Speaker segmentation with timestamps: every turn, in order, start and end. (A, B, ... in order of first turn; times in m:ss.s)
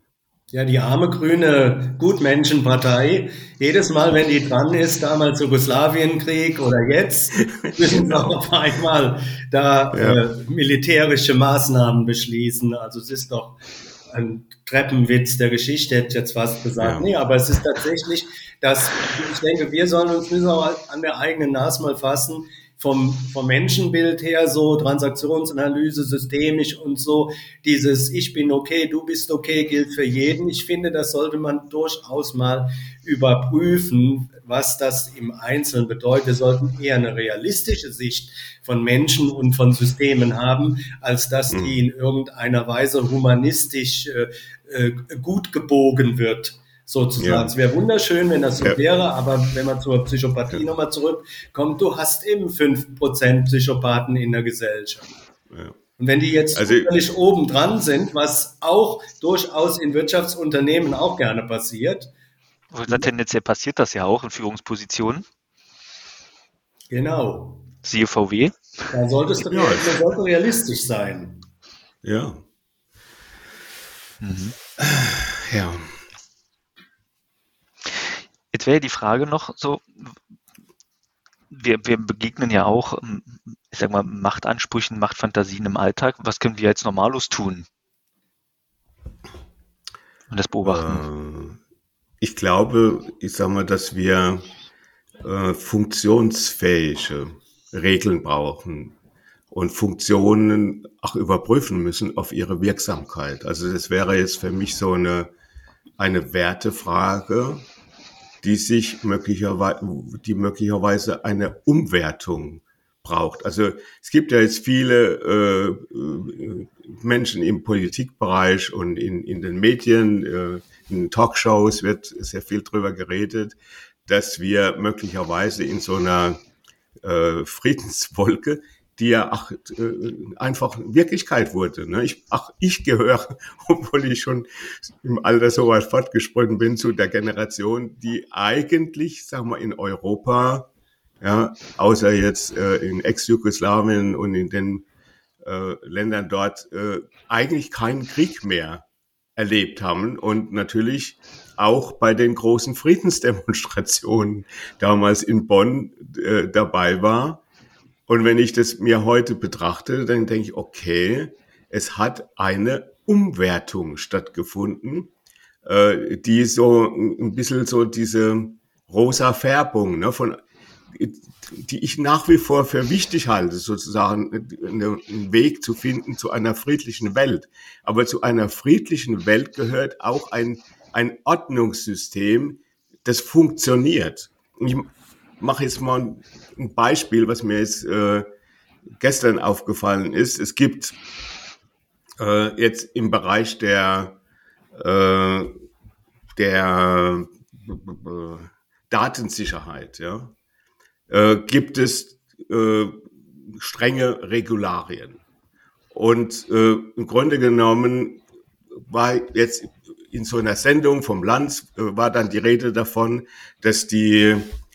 0:00.5-0:13.6 A
0:07.6-0:08.4 B
0:09.9-0:10.2 B
0:14.1-0:55.1 A
0:16.8-0:17.1 B
0:41.5-0:41.8 B
0:47.2-0:47.5 B
0:55.5-0:55.8 B
0:56.0-1:02.1 A
0:56.5-0:56.9 B
1:02.7-1:05.2 C
1:06.9-1:07.6 A
1:07.8-1:08.6 C
1:08.9-1:11.4 A
1:09.5-1:10.0 B
1:12.0-1:12.4 B
1:14.2-1:14.6 C
1:14.8-1:16.0 B
1:17.9-1:20.1 C
1:21.5-1:27.7 C
1:30.3-1:31.0 C
1:30.6-1:31.6 B
1:32.2-1:34.5 B
1:35.2-1:39.0 B
1:39.5-1:45.3 B
1:46.0-1:47.7 B
1:48.4-2:06.4 B
2:07.0-2:20.7 B
2:21.2-2:24.9 B
2:25.4-2:28.8 B
2:29.4-2:37.4 B
2:38.1-2:45.1 B
2:45.6-3:08.3 B
3:09.0-3:11.0 B
3:12.2-3:14.2 B
3:14.7-3:15.5 B
3:16.4-3:20.4 B
3:21.1-3:25.2 B
3:25.9-3:28.2 B
3:28.8-3:34.6 B